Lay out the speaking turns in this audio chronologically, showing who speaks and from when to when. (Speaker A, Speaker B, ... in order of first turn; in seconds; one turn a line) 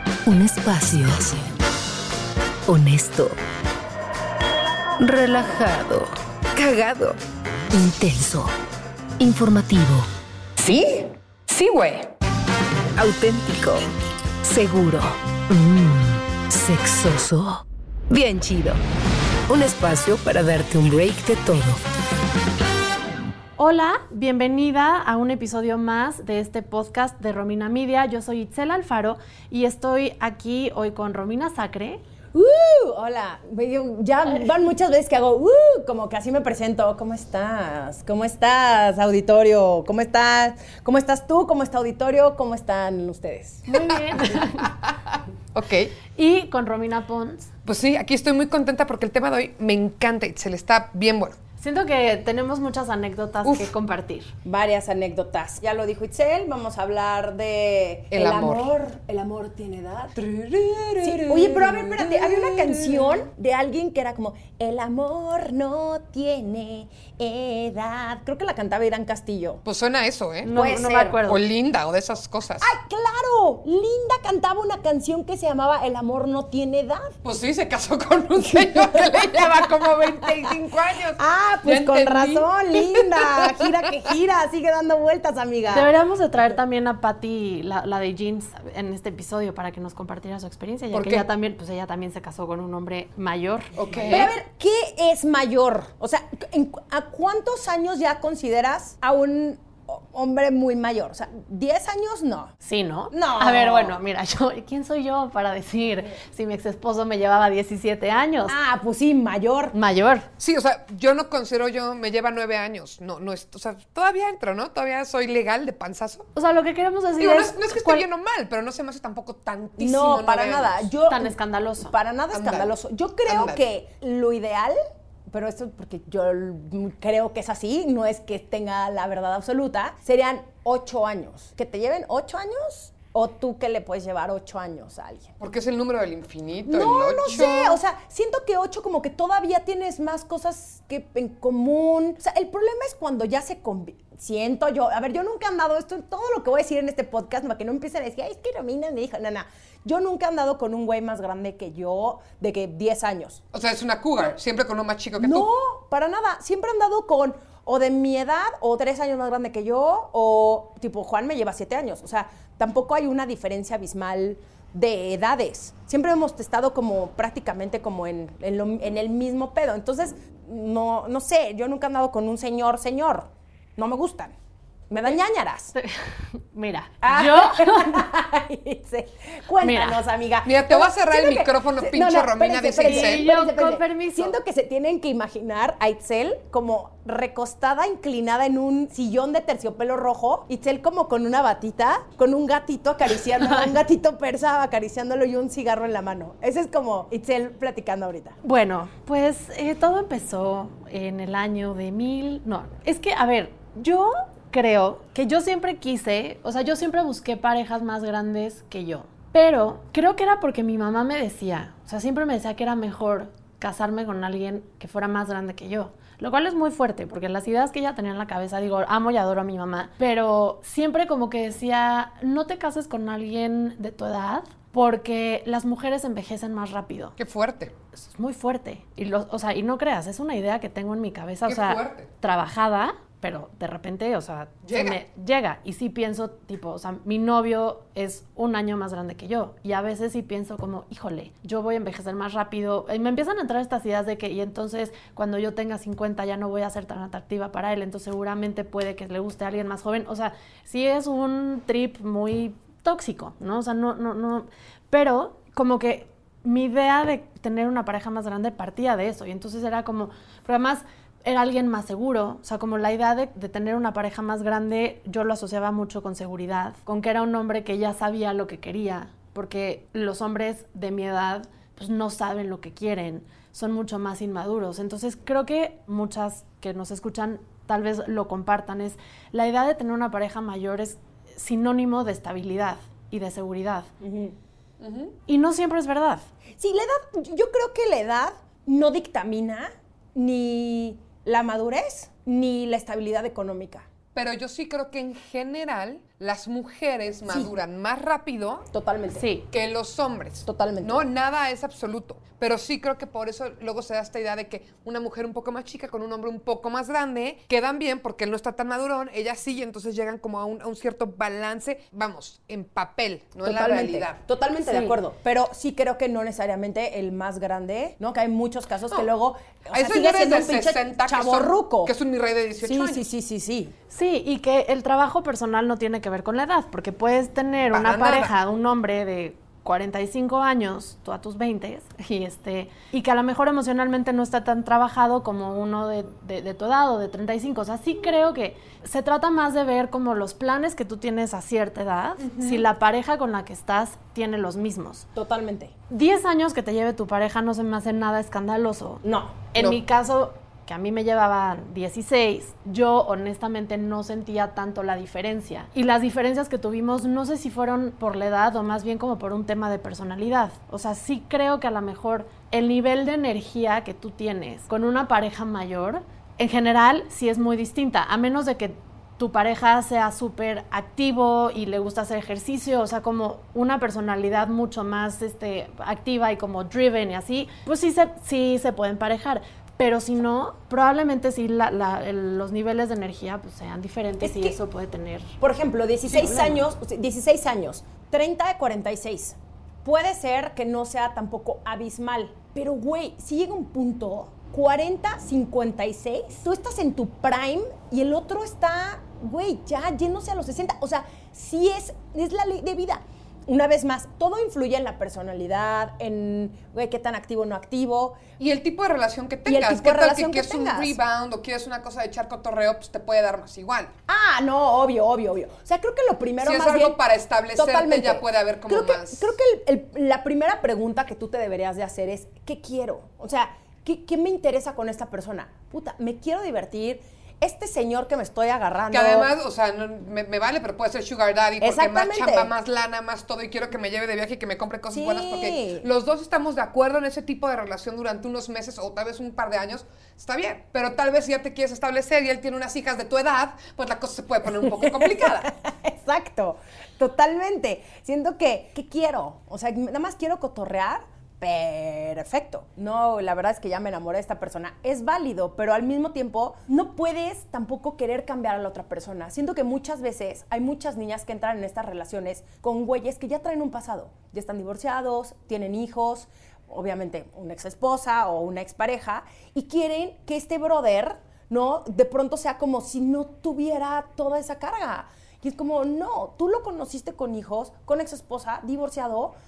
Speaker A: 0.3-1.5
Speaker A: 2.7-3.4
Speaker A: 5.0-7.1
Speaker A: 7.7-8.5
Speaker A: 9.2-10.1
Speaker B: 11.5-12.0
Speaker A: 11.5-11.9
Speaker A: 13.0-13.9
Speaker A: 14.4-18.8
Speaker A: 19.5-21.8
Speaker C: 23.6-32.0
Speaker D: 32.3-43.9
Speaker C: 43.7-44.7
Speaker B: 44.1-45.9
Speaker C: 46.2-47.5
Speaker B: 47.6-51.4
Speaker C: 51.6-54.3
Speaker B: 53.5-53.7
Speaker D: 54.5-60.2
Speaker B: 58.1-58.7
Speaker B: 60.2-63.2
Speaker D: 61.0-69.6
Speaker B: 69.7-70.5
Speaker C: 70.4-71.4
Speaker D: 70.5-71.2
Speaker B: 71.3-72.7
Speaker D: 72.6-77.1
Speaker B: 77.2-83.7
Speaker D: 78.4-80.6
Speaker D: 81.2-85.9
Speaker C: 85.7-94.2
Speaker B: 90.9-91.3
Speaker B: 93.7-94.3
Speaker D: 94.0-102.5
Speaker C: 102.6-108.5
Speaker D: 103.1-104.0
Speaker D: 108.5-109.8
Speaker C: 109.7-110.3
Speaker B: 110.4-116.3
Speaker C: 116.4-118.0
Speaker B: 117.2-120.9
Speaker D: 119.8-121.4
Speaker C: 121.1-121.9
Speaker D: 121.9-124.8
Speaker B: 122.3-122.7
Speaker B: 123.2-123.6
Speaker D: 125.3-135.3
Speaker B: 135.4-137.8
Speaker D: 136.7-153.4
Speaker B: 153.5-155.5
Speaker D: 155.2-174.3
Speaker D: 174.9-175.7
Speaker C: 175.8-178.1
Speaker D: 177.0-198.4
Speaker C: 179.6-180.0
Speaker B: 180.4-183.3
Speaker C: 182.8-184.4
Speaker C: 198.4-227.2
Speaker B: 227.2-227.7
Speaker C: 227.9-283.9
Speaker B: 231.4-232.1
Speaker B: 234.7-235.0
Speaker D: 284.0-284.4
Speaker B: 284.8-285.1
Speaker C: 285.3-286.3
Speaker D: 286.6-293.9
Speaker B: 294.1-298.7
Speaker D: 297.3-297.5
Speaker D: 298.7-299.2
Speaker C: 299.1-299.5
Speaker B: 299.5-314.2
Speaker D: 300.5-301.0
Speaker D: 313.4-321.9
Speaker C: 314.6-315.0
Speaker B: 319.7-323.1
Speaker D: 322.6-323.7
Speaker C: 323.9-345.1
Speaker B: 327.7-328.3
Speaker B: 342.2-342.6
Speaker D: 345.1-345.7
Speaker C: 345.9-349.0
Speaker D: 349.0-349.5
Speaker C: 349.5-385.3
Speaker D: 384.2-384.6
Speaker D: 385.4-408.2
Speaker C: 386.1-386.6
Speaker B: 408.4-413.9
Speaker D: 409.5-411.0
Speaker D: 414.1-417.0
Speaker B: 416.4-419.3
Speaker D: 417.6-429.3
Speaker B: 428.9-445.5
Speaker D: 431.6-432.5
Speaker D: 434.9-435.9
Speaker D: 444.6-479.3